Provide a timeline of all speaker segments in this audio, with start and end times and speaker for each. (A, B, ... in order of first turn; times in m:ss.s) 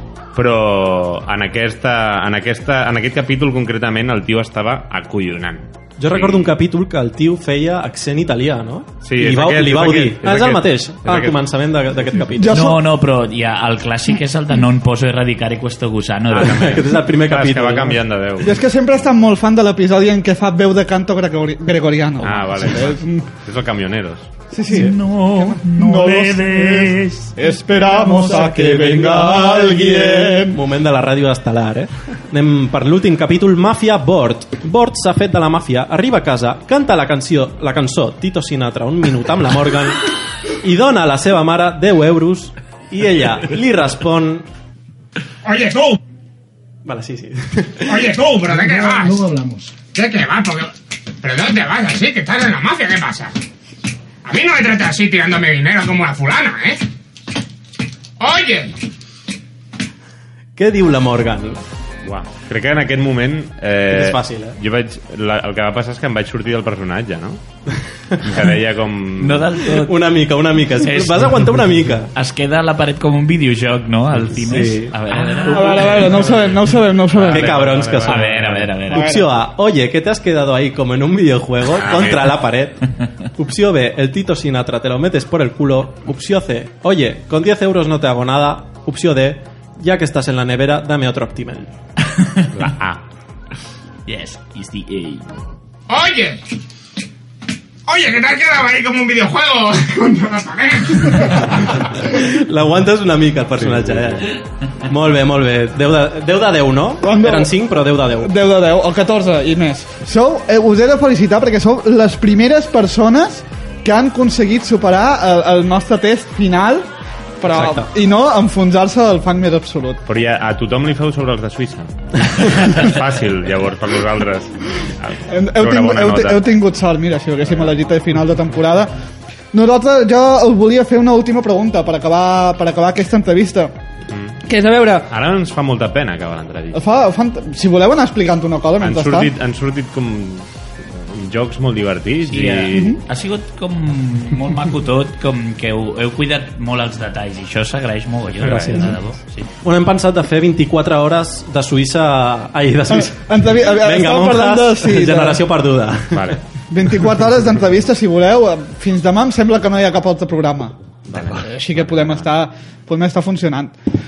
0:00.3-0:06.6 A
0:06.0-0:12.6 B
0:09.0-0:11.4 A
0:12.4-0:12.8 C
0:12.5-0:16.9 D
0:16.3-0:18.0 B
0:17.1-0:18.6 A
0:18.4-0:23.2 C
0:22.2-0:24.3 A
0:24.5-0:30.6 C
0:24.7-0:27.4 D
0:28.2-0:40.0 B
0:40.6-0:44.5 B
0:45.4-0:46.0 E
0:46.8-0:48.1 B
0:47.9-0:49.4 E
0:49.9-0:53.3 E
0:54.2-0:56.8 E
0:58.2-0:58.8 E
1:00.6-1:01.6 B
1:02.0-1:07.4 A
1:03.9-1:04.6 B
1:08.2-1:09.6 A
1:09.2-1:10.0 D
1:09.7-1:12.1 B
1:10.7-1:11.4 D
1:12.1-1:16.6 D
1:14.2-1:16.1 B
1:15.5-1:17.6 C
1:17.1-1:18.7 A
1:17.3-1:22.8 B
1:18.0-1:19.1 D
1:18.9-1:19.3 C
1:21.7-1:22.4 A
1:23.4-1:31.7 B
1:32.4-1:32.7 D
1:32.6-1:33.0 A
1:34.1-1:35.3 D
1:35.9-1:36.4 E
1:37.9-1:41.5 E
1:42.1-1:48.3 B
1:43.6-1:44.1 A
1:47.0-1:47.6 C
1:48.2-1:56.9 C
1:57.4-2:00.0 C
1:57.5-1:57.9 B
2:00.1-2:06.4 A
2:05.3-2:08.9 C
2:07.5-2:07.8 A
2:09.5-2:13.7 C
2:14.1-2:14.4 A
2:14.5-2:15.1 C
2:15.0-2:16.8 A
2:16.7-2:19.3 C
2:18.8-2:23.0 A
2:22.3-2:29.5 D
2:22.5-2:23.0 C
2:28.4-2:28.9 A
2:28.4-2:29.0 B
2:29.6-2:36.4 B
2:32.9-2:35.4 C
2:36.1-2:36.4 A
2:36.7-2:43.8 C
2:41.1-2:42.3 A